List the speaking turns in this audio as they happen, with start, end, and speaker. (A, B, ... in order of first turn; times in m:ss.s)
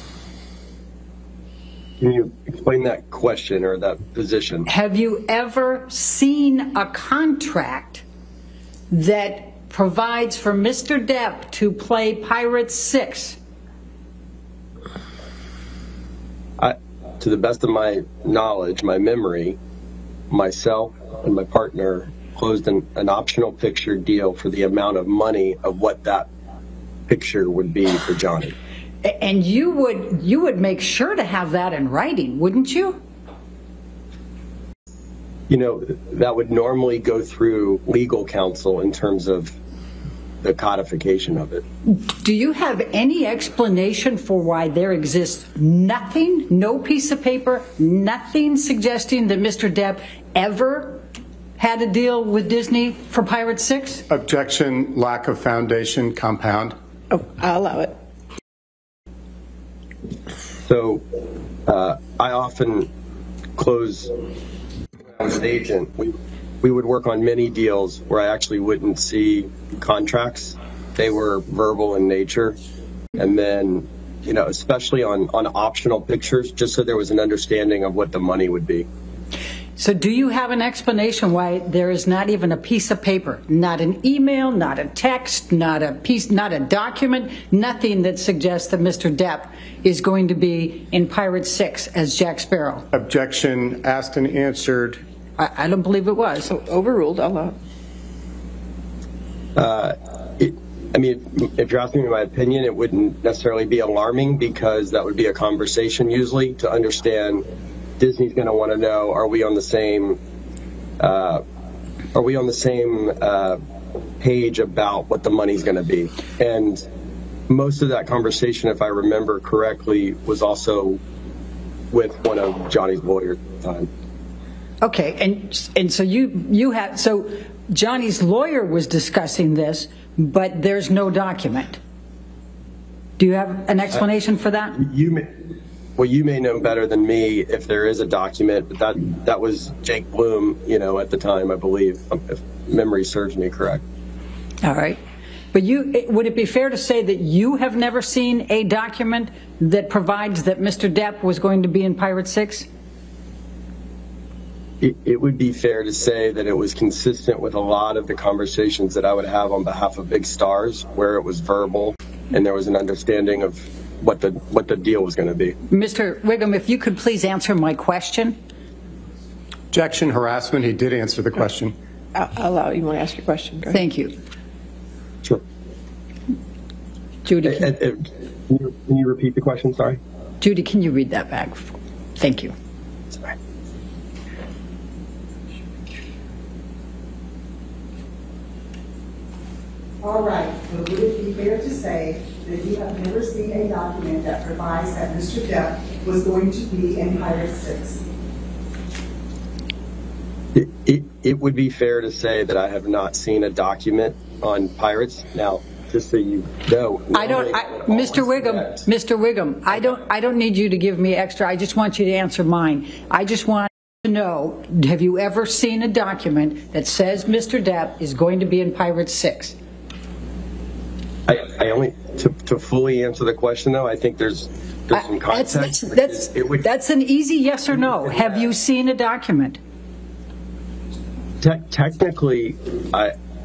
0:02.0-0:04.7 A
0:04.7-0:08.0 B
0:08.9-0:13.4 B
0:16.6-0:19.6 A
0:20.3-0:26.3 A
0:27.1-0:28.6 A
0:29.0-0:33.0 B
0:35.5-0:39.6 A
0:40.4-0:41.6 A
0:41.9-0:51.0 B
0:51.6-0:54.0 B
0:54.1-0:56.8 C
0:57.1-0:57.9 D
1:00.6-1:01.0 A
1:01.7-1:02.9 A
1:03.6-1:04.1 A
1:05.2-1:12.6 A
1:13.2-1:18.9 A
1:19.8-1:32.9 B
1:32.9-1:35.0 C
1:35.4-1:36.5 B
1:36.5-1:37.6 D
1:39.6-1:47.4 A
1:48.0-1:50.2 A
1:51.0-1:51.4 A
1:52.1-1:53.6 A
1:54.2-1:56.8 A
1:57.5-2:01.0 A
2:01.9-2:03.9 A
2:04.8-2:11.8 B
2:13.2-2:14.8 B
2:14.8-2:15.3 A
2:16.0-2:23.8 A
2:24.6-2:25.0 B
2:25.5-2:32.7 B
2:34.8-2:45.6 A
2:45.7-2:48.4 B
2:49.7-2:51.7 C
2:52.2-2:53.8 D
2:53.7-2:54.2 B
2:57.3-2:57.7 B
2:57.4-3:00.0 A
3:00.4-3:02.5 B
3:10.0-3:18.0 E
3:20.6-3:28.9 A
3:27.1-3:39.6 B
3:41.3-3:46.6 A
3:45.0-3:49.6 B
3:51.4-3:53.1 A